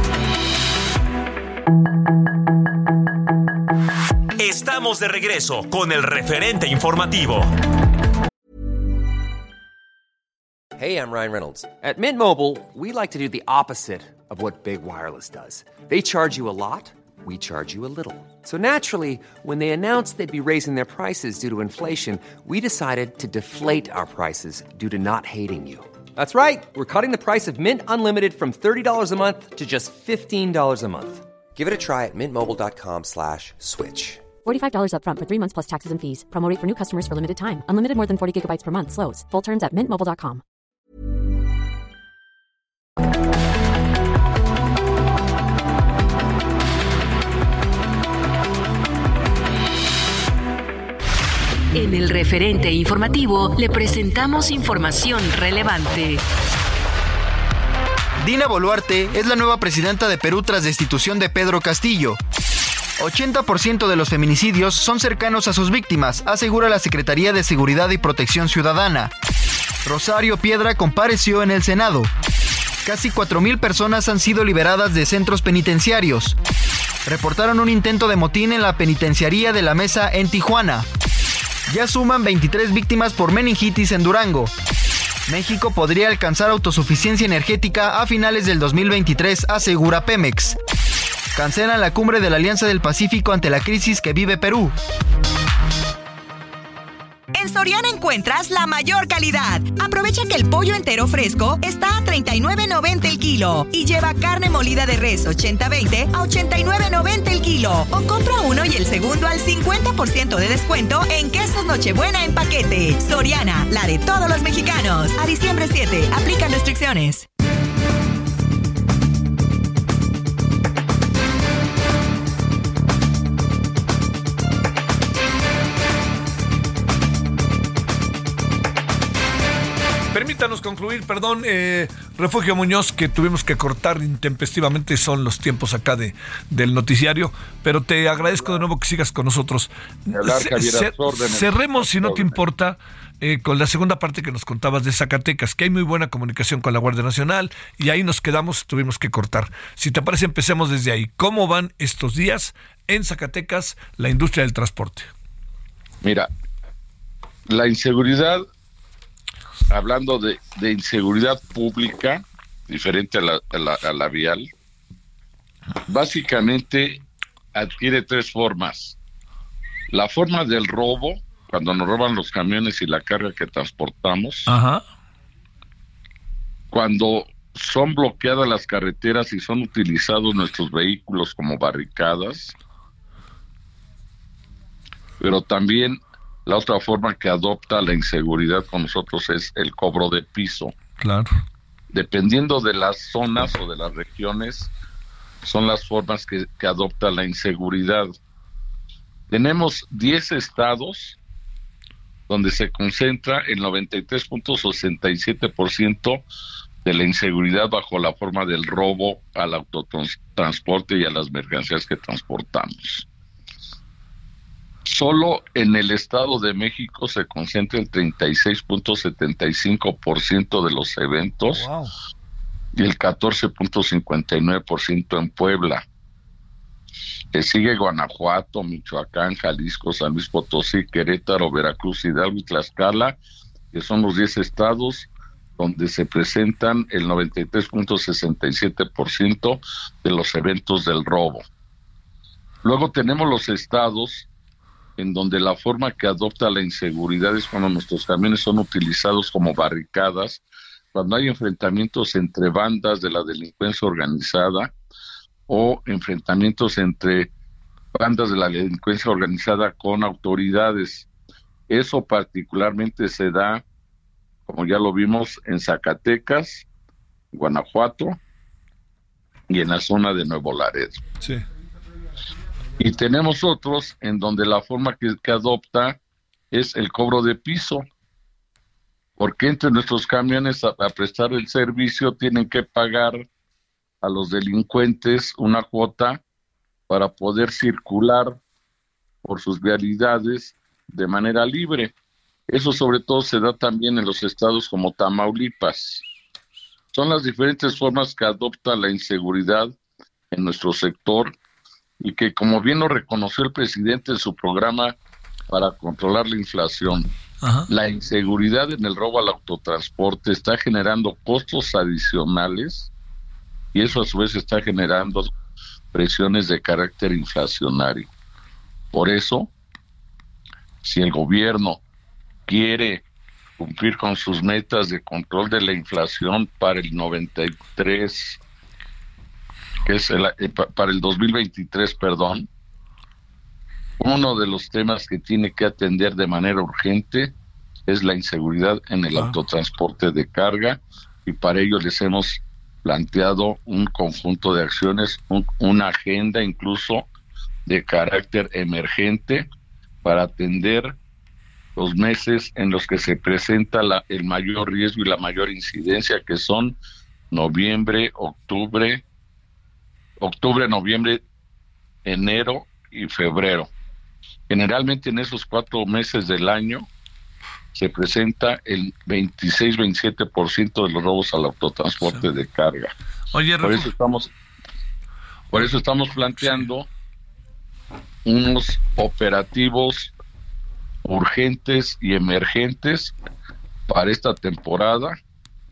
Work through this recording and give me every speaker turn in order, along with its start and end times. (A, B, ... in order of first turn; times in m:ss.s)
0:04.4-0:07.5 A
0:10.8-0:34.3 B
0:34.4-0:40.4 C
0:51.7-0:56.2 D
0:58.2-1:02.2 E
1:03.0-1:09.1 E
1:09.8-1:12.1 E
1:12.8-1:16.4 E
1:17.1-1:20.9 E
1:21.7-1:24.5 E
1:25.3-1:30.6 E
1:31.4-1:34.7 E
1:37.4-1:57.3 F
2:10.1-2:35.1 G
2:18.3-2:18.6 H
2:20.1-2:22.4 H
2:36.0-2:36.3 H
2:37.5-2:38.5 H
2:39.7-2:44.5 H
2:45.9-2:49.0 H
2:49.9-2:54.5 H
2:54.5-2:54.8 G
2:56.7-3:02.5 H
3:05.2-3:10.7 H
3:11.0-3:11.3 G
3:11.9-3:14.7 H
3:15.4-3:18.1 H
3:19.3-3:21.2 H
3:22.3-3:26.2 H
3:26.8-3:33.1 H
3:34.9-3:41.7 H
3:41.5-3:41.9 G
3:42.8-3:45.8 H
3:47.3-3:53.2 H
3:53.7-4:01.4 H
4:02.6-4:04.3 H
4:05.0-4:10.4 H
4:10.9-4:14.7 H
4:15.5-4:17.3 H
4:18.0-4:21.1 H
4:21.7-4:23.6 H
4:24.5-4:26.6 H
4:27.3-4:28.2 H
4:29.5-4:31.0 H
4:32.8-4:36.0 H
4:36.5-4:37.8 H
4:39.2-4:43.2 H
4:44.0-4:46.2 H
4:46.9-4:48.4 H
4:49.2-4:51.9 H
4:52.5-4:56.0 H
4:56.9-4:59.7 H
5:00.3-5:01.3 H
5:02.0-5:05.0 H
5:05.5-5:07.1 H
5:07.4-5:07.7 G
5:07.7-5:12.9 H
5:13.7-5:15.3 H
5:15.9-5:18.1 H
5:18.9-5:19.5 H
5:20.8-5:21.8 H
5:22.5-5:23.0 H
5:23.6-5:28.4 H
5:29.9-5:32.5 H
5:34.0-5:37.4 H
5:37.9-5:47.1 H
5:47.7-5:49.5 H
5:50.0-5:51.0 H
5:51.8-5:56.8 H
5:57.3-5:59.0 H
6:00.2-6:01.2 H
6:02.0-6:03.7 H
6:04.5-6:06.9 H
6:07.8-6:12.9 H
6:13.3-6:13.9 G
6:13.6-6:14.3 H
6:15.5-6:16.9 H
6:16.4-6:16.7 G
6:18.3-6:20.1 H
6:21.0-6:23.2 H
6:23.9-6:25.2 H